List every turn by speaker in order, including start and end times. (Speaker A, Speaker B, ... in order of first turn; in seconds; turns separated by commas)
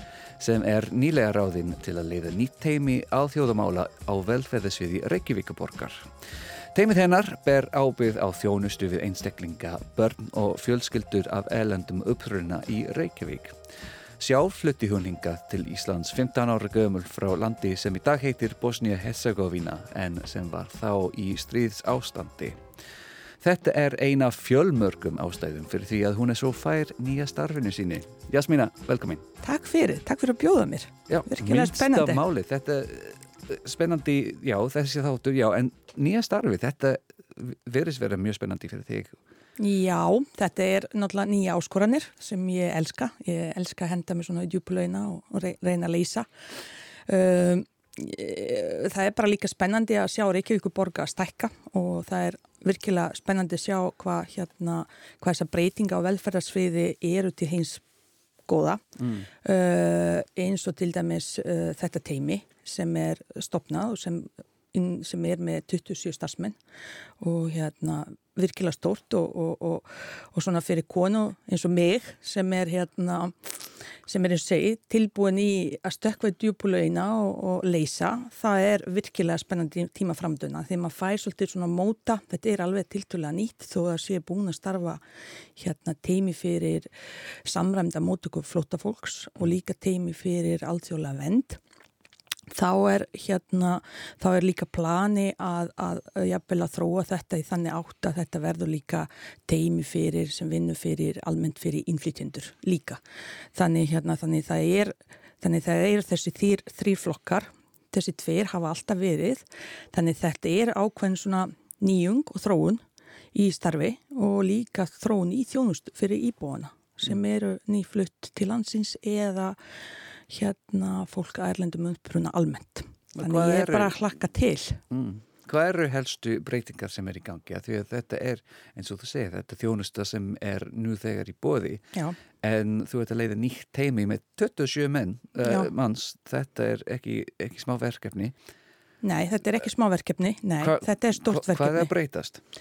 Speaker A: 0.4-6.1, Speaker A: 6.7-13.6, Speaker A: 14.2-22.6, Speaker A: 23.4-29.3, Speaker B: 29.4-32.2, Speaker A: 31.1-39.2, Speaker B: 39.6-46.3, Speaker B: 47.1-57.8, Speaker B: 58.5-66.6, Speaker A: 59.0-59.3, Speaker B: 67.2-73.3, Speaker B: 74.1-85.0, Speaker B: 85.6-86.9, Speaker B: 87.5-91.6, Speaker B: 92.5-103.0, Speaker B: 103.5-112.8, Speaker B: 113.3-119.6, Speaker B: 120.3-124.8, Speaker A: 123.2-124.0, Speaker A: 124.9-138.3, Speaker B: 135.4-135.7, Speaker B: 139.0-141.9, Speaker A: 140.6-142.4